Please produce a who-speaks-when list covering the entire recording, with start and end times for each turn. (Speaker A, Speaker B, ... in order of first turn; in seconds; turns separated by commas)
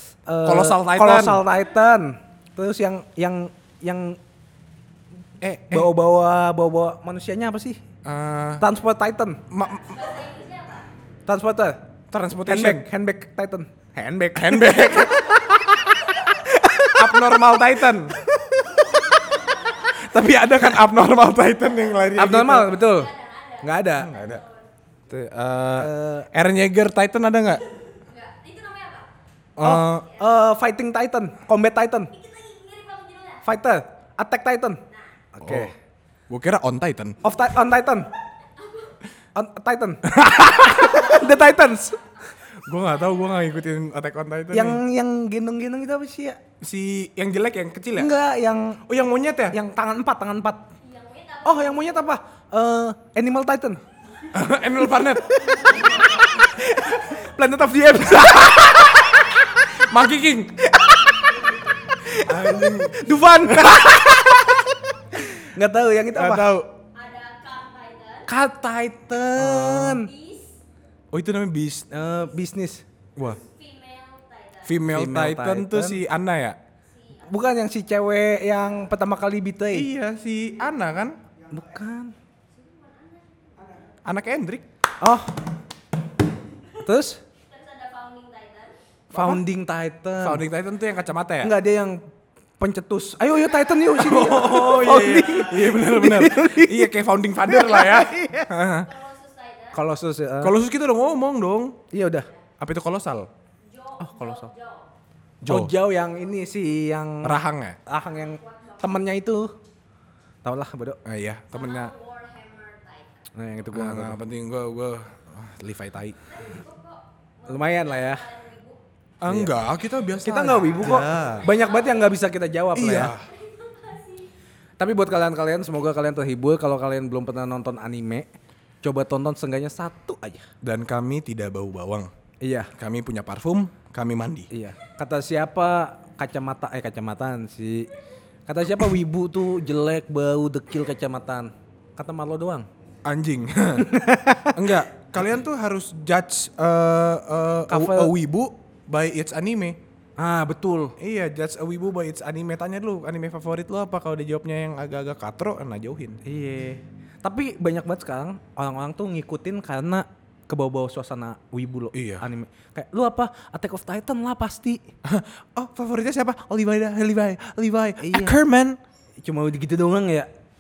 Speaker A: 0.3-4.2, Speaker B: 0.4-1.4, Speaker B: 5.4-5.9, Speaker A: 5.7-7.8, Speaker B: 8.0-8.7, Speaker A: 8.6-9.4, Speaker B: 9.5-10.0, Speaker C: 9.6-10.9, Speaker A: 11.3-11.8, Speaker B: 12.1-12.9, Speaker A: 12.4-17.4, Speaker B: 14.3-15.6, Speaker B: 16.8-18.1, Speaker B: 20.0-22.8, Speaker A: 22.2-24.1, Speaker C: 22.7-24.7, Speaker B: 24.0-24.4, Speaker B: 25.1-27.6, Speaker A: 25.8-26.3, Speaker C: 28.1-29.1, Speaker B: 29.6-30.1, Speaker A: 29.6-32.1, Speaker C: 30.0-30.3, Speaker C: 32.1-33.5, Speaker A: 33.4-34.8, Speaker A: 35.3-35.7, Speaker B: 35.4-35.7, Speaker B: 36.3-37.2, Speaker A: 37.2-38.1, Speaker C: 38.6-38.9, Speaker A: 39.4-42.0, Speaker B: 40.0-41.1, Speaker C: 41.1-41.5, Speaker B: 42.6-44.8, Speaker C: 43.0-43.5, Speaker A: 44.5-46.4, Speaker B: 46.6-48.1, Speaker A: 48.0-48.8, Speaker B: 48.9-49.6, Speaker A: 49.5-50.7, Speaker C: 50.8-52.2, Speaker A: 51.5-53.8, Speaker B: 54.3-55.4, Speaker A: 55.1-59.4, Speaker B: 59.7-60.6, Speaker A: 60.6-66.5, Speaker B: 62.2-64.2, Speaker B: 66.1-66.7, Speaker C: 66.9-68.3, Speaker A: 68.3-70.1, Speaker B: 69.3-70.0, Speaker C: 69.8-70.6, Speaker B: 71.1-71.9, Speaker A: 71.9-72.8, Speaker C: 73.4-74.8, Speaker B: 74.6-76.6, Speaker A: 74.8-76.0, Speaker C: 76.9-77.5, Speaker A: 77.2-79.9, Speaker B: 79.7-81.2, Speaker A: 81.5-82.2, Speaker C: 82.5-83.7, Speaker B: 84.0-84.7, Speaker A: 85.0-85.4, Speaker A: 86.8-87.2, Speaker C: 87.4-88.8, Speaker B: 89.1-89.4, Speaker A: 89.1-90.4, Speaker B: 90.2-91.5, Speaker A: 91.4-92.0, Speaker A: 92.6-96.9, Speaker B: 94.0-98.9, Speaker A: 97.5-98.5, Speaker C: 98.8-99.8, Speaker A: 99.7-100.5, Speaker B: 100.4-101.8, Speaker A: 101.9-102.3, Speaker B: 102.6-103.3, Speaker C: 103.7-104.9, Speaker A: 104.0-104.5, Speaker B: 105.4-105.7, Speaker A: 105.5-109.5, Speaker B: 107.2-107.8, Speaker C: 107.9-109.1, Speaker A: 110.4-111.0, Speaker B: 111.0-111.9, Speaker C: 111.5-113.2, Speaker A: 113.3-114.2, Speaker B: 113.7-116.2, Speaker C: 116.3-118.8, Speaker A: 117.5-118.3, Speaker B: 119.2-121.5, Speaker A: 119.3-119.5, Speaker A: 120.2-123.1, Speaker C: 121.0-122.1, Speaker B: 122.8-123.3, Speaker C: 123.2-124.3, Speaker A: 124.8-128.3, Speaker A: 128.8-130.5, Speaker B: 130.6-132.1, Speaker A: 132.4-132.7, Speaker B: 132.8-134.5, Speaker A: 134.5-137.9, Speaker A: 138.5-142.7, Speaker B: 143.1-143.9, Speaker A: 143.8-144.7, Speaker B: 144.5-149.8, Speaker A: 147.7-148.1, Speaker A: 150.2-151.0, Speaker B: 151.0-156.2, Speaker A: 156.2-164.8, Speaker B: 161.9-162.3, Speaker B: 165.0-168.8, Speaker A: 168.0-168.4, Speaker A: 169.2-170.3